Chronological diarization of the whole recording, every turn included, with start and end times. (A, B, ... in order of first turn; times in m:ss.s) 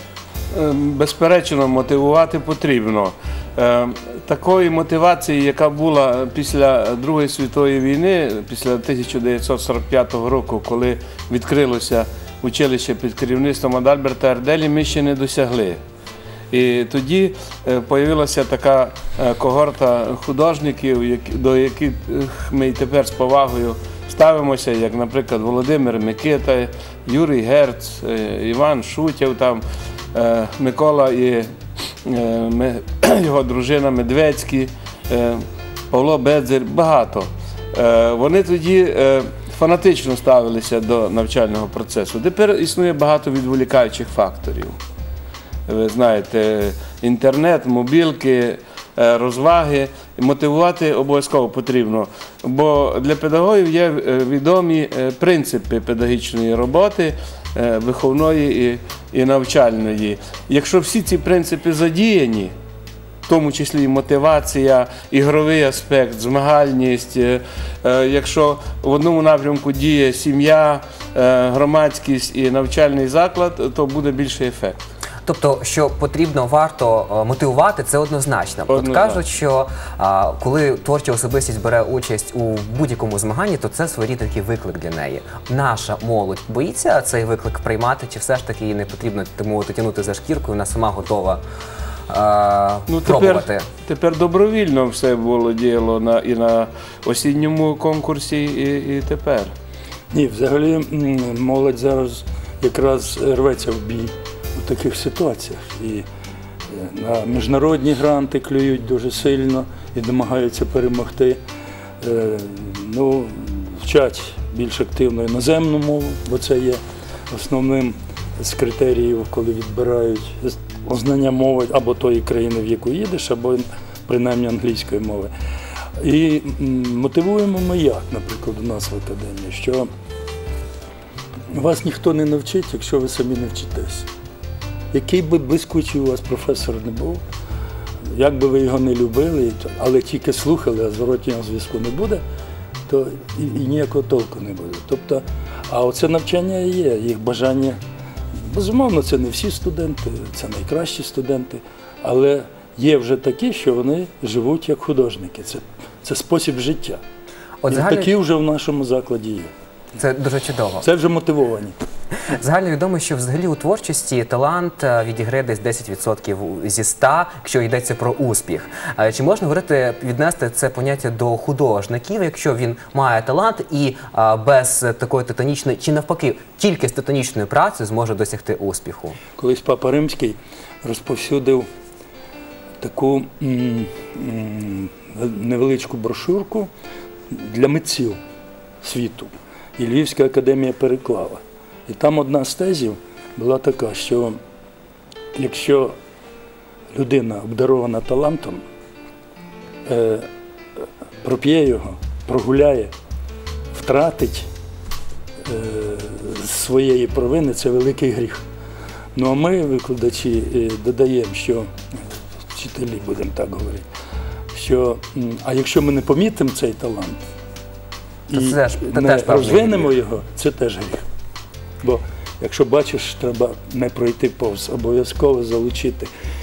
0:00.5-0:15.8 A
0:16.5-0:29.6 A
0:30.1-0:31.5 A
0:32.0-0:44.8 A
0:45.7-1:02.5 A
1:03.3-1:14.9 A
1:15.2-1:31.4 B
1:18.7-1:19.2 A
1:32.1-1:33.6 B
1:32.9-1:39.5 A
1:40.1-1:46.0 C
1:46.7-1:51.4 C
1:52.0-2:05.3 C
2:06.0-2:09.9 C
2:11.5-2:14.1 C
2:14.9-2:17.2 C
2:18.1-2:22.2 C
2:22.9-2:27.8 C
2:28.5-2:37.0 C
2:37.6-2:38.1 B
2:37.7-2:39.5 C
2:40.0-2:40.8 B
2:40.8-2:41.8 C
2:42.4-2:59.2 B
2:59.4-3:01.7 C
3:02.8-3:06.7 C
3:07.3-3:08.2 C
3:08.8-3:14.4 C
3:15.3-3:15.9 C
3:16.9-3:18.6 C
3:19.9-3:20.3 C
3:21.2-3:22.9 C
3:23.7-3:24.5 C
3:25.4-3:28.4 C
3:29.2-3:31.7 C
3:32.5-3:33.8 C
3:34.5-3:37.2 C
3:38.3-3:41.0 C
3:38.3-3:39.9 B
3:41.8-3:46.1 C